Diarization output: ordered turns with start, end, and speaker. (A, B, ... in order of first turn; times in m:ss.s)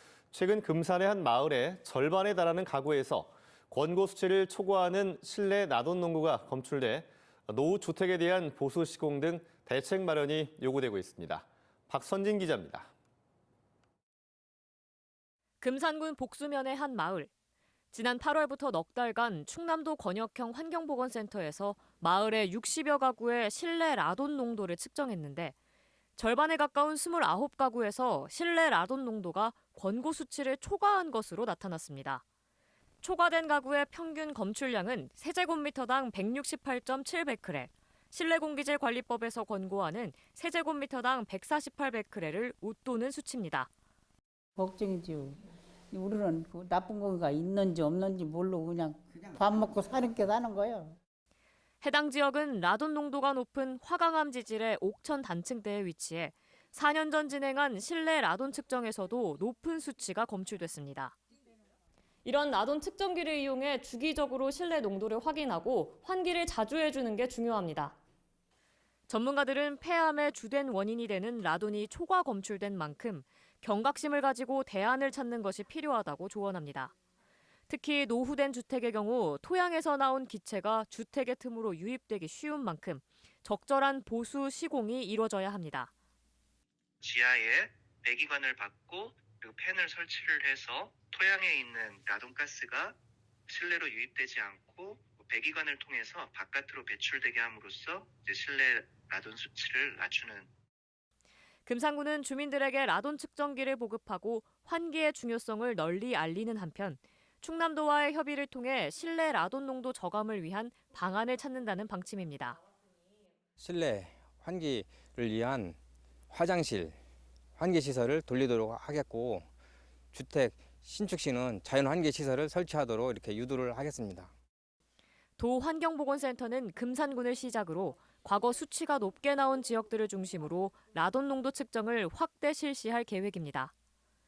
0:00.3-0:12.9 A
0:15.6-0:17.3 B
0:17.9-0:25.5 B
0:26.2-0:32.2 B
0:33.0-0:43.7 B
0:44.6-0:45.4 C
0:45.9-0:51.0 C
0:51.8-1:01.2 B
1:02.2-1:07.9 B
1:09.1-1:16.9 B
1:17.7-1:25.9 B
1:27.0-1:33.0 D
1:33.5-1:40.5 D
1:41.6-1:52.6 B
1:53.6-1:55.8 E
1:56.3-1:57.0 E
1:57.6-1:59.5 E
2:00.1-2:04.3 E
2:05.4-2:13.7 B